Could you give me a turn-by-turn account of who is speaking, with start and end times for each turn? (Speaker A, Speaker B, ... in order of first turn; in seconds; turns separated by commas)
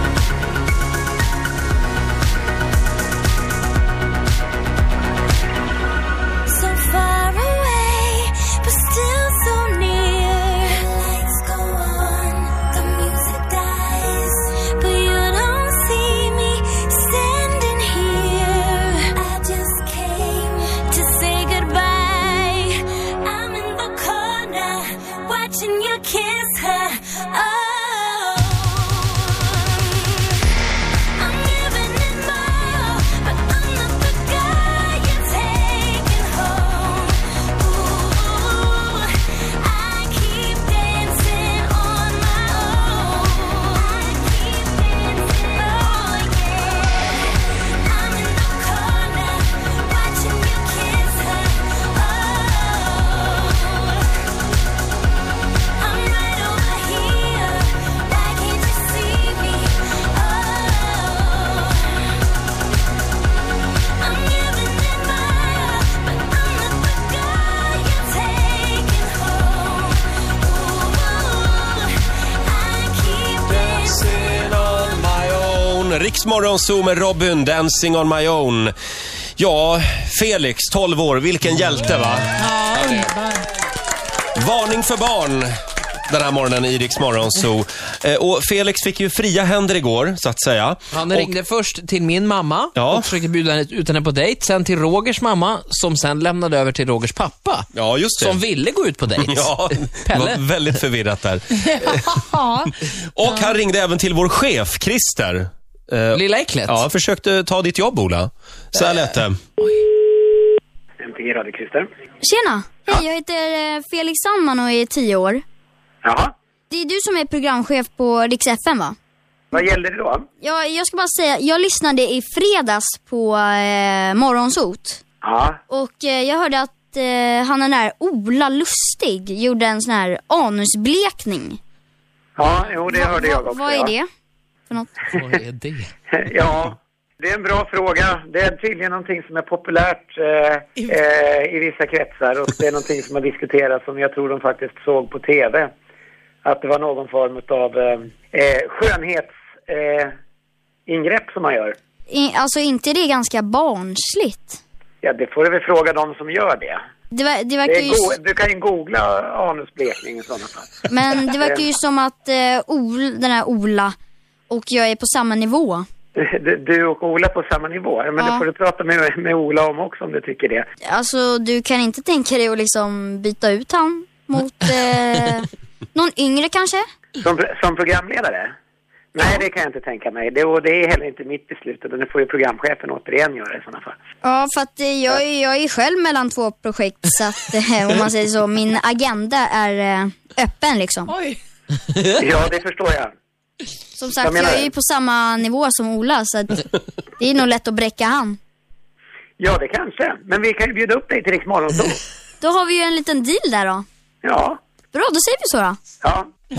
Speaker A: 6.5-30.4, Speaker A: 31.2-54.0, Speaker A: 55.8-62.0, Speaker A: 64.0-74.6, Speaker B: 73.5-78.7, Speaker B: 79.4-82.3, Speaker C: 82.4-83.5, Speaker D: 82.8-83.1, Speaker B: 84.4-85.5, Speaker B: 86.1-91.3, Speaker D: 90.9-100.4, Speaker B: 92.8-93.1, Speaker B: 97.7-98.4, Speaker B: 99.2-102.1, Speaker C: 101.7-102.7, Speaker B: 103.0-109.4, Speaker D: 106.1-106.8, Speaker E: 111.0-111.9, Speaker F: 112.2-115.4, Speaker E: 116.0-116.3, Speaker F: 116.7-119.0, Speaker E: 119.5-120.2, Speaker F: 120.4-125.0, Speaker E: 125.2-125.6, Speaker F: 125.7-131.6, Speaker E: 132.4-133.9, Speaker F: 132.9-134.1, Speaker F: 134.7-135.0, Speaker D: 135.1-135.9, Speaker E: 136.2-145.7, Speaker E: 146.4-150.1, Speaker E: 150.9-151.7, Speaker F: 152.1-154.6, Speaker E: 155.0-156.8, Speaker F: 157.1-158.2, Speaker E: 157.6-160.7, Speaker F: 160.9-163.9, Speaker E: 161.3-161.6, Speaker F: 164.5-165.9, Speaker E: 166.2-170.6, Speaker F: 168.2-168.4, Speaker F: 170.9-176.8, Speaker E: 177.2-178.5, Speaker E: 179.1-183.9, Speaker F: 184.2-191.1, Speaker C: 191.1-191.4, Speaker E: 192.2-193.1, Speaker F: 194.0-198.4, Speaker E: 194.2-194.7, Speaker E: 199.4-202.0, Speaker F: 202.4-203.8, Speaker E: 204.2-204.6, Speaker F: 204.9-205.8